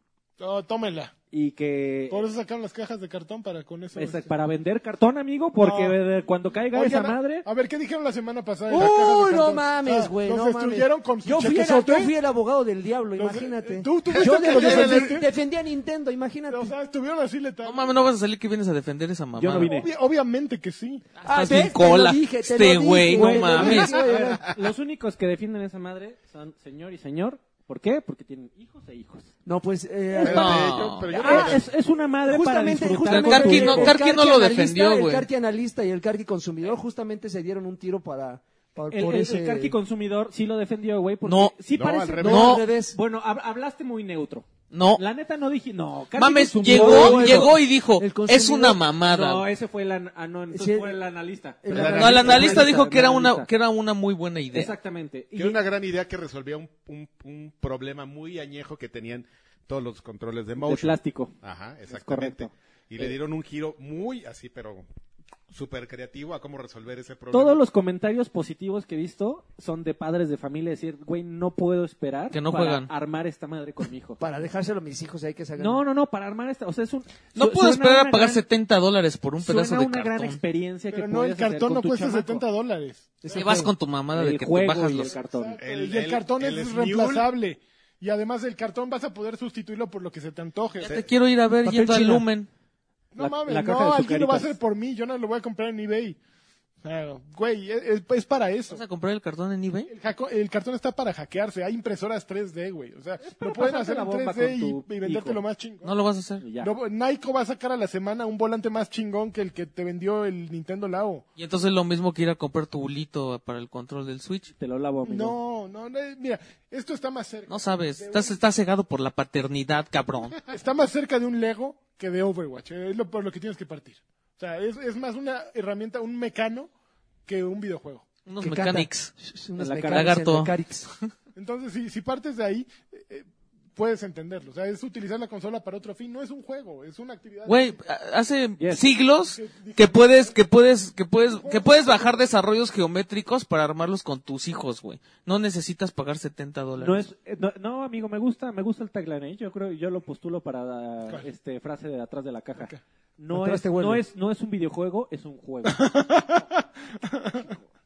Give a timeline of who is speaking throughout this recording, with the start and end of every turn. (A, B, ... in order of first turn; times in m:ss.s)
0:00.4-0:01.1 A
0:01.3-0:02.3 B
0:02.1-0:04.3 A
0:03.9-0:07.5 B
0:05.6-0:06.0 A
0:06.7-0:12.1 A
0:08.7-0:16.7 C
0:13.2-0:15.3 A
0:14.1-0:15.1 D
0:16.5-0:17.9 A
0:17.6-0:19.7 E
0:19.4-0:19.9 B
0:19.5-0:21.0 A
0:21.2-0:24.0 E
0:21.2-0:24.5 C
0:23.1-0:29.3 B
0:29.4-0:31.6 C
0:30.2-0:34.0 B
0:30.2-0:31.4 E
0:30.2-0:31.7 D
0:32.2-0:39.8 C
0:33.0-0:35.3 E
0:38.9-0:47.5 B
0:41.2-0:41.5 E
0:41.7-0:42.5 D
0:42.2-0:43.0 C
0:42.2-0:42.6 E
0:44.7-0:45.0 E
0:46.1-0:49.4 E
0:46.6-0:48.8 C
0:49.0-0:53.5 B
0:50.5-0:51.0 C
0:51.6-0:52.8 C
0:51.7-0:52.5 D
0:51.8-0:54.7 E
0:54.5-0:55.6 B
0:55.3-1:04.8 D
1:00.6-1:01.3 B
1:01.9-1:03.1 B
1:05.5-1:07.6 D
1:07.3-1:14.2 B
1:12.3-1:12.9 E
1:14.2-1:15.8 C
1:15.6-1:18.4 B
1:17.4-1:20.4 E
1:19.4-1:22.4 B
1:20.9-1:23.5 A
1:23.2-1:23.7 C
1:23.3-1:25.1 E
1:24.1-1:25.6 B
1:25.0-1:30.9 A
1:25.6-1:27.3 D
1:30.8-1:32.5 E
1:31.6-1:32.2 B
1:31.7-1:32.2 C
1:33.1-1:36.2 A
1:33.2-1:34.5 B
1:36.8-1:38.8 A
1:38.7-1:39.9 E
1:39.9-1:45.9 A
1:43.2-1:45.4 B
1:45.8-1:46.4 E
1:46.4-1:46.7 B
1:46.6-1:51.2 A
1:51.4-1:54.5 E
1:54.6-1:55.4 B
1:55.0-1:58.4 A
1:57.5-2:00.4 E
2:00.4-2:06.7 A
2:07.2-2:08.1 A
2:08.2-2:09.1 E
2:08.4-2:10.9 C
2:09.6-2:10.2 B
2:09.8-2:10.5 E
2:11.3-2:17.8 A
2:17.4-2:27.1 E
2:18.6-2:18.9 B
2:19.2-2:20.4 A
2:21.2-2:22.3 A
2:26.8-2:36.0 B
2:33.3-2:34.0 C
2:35.6-2:37.6 A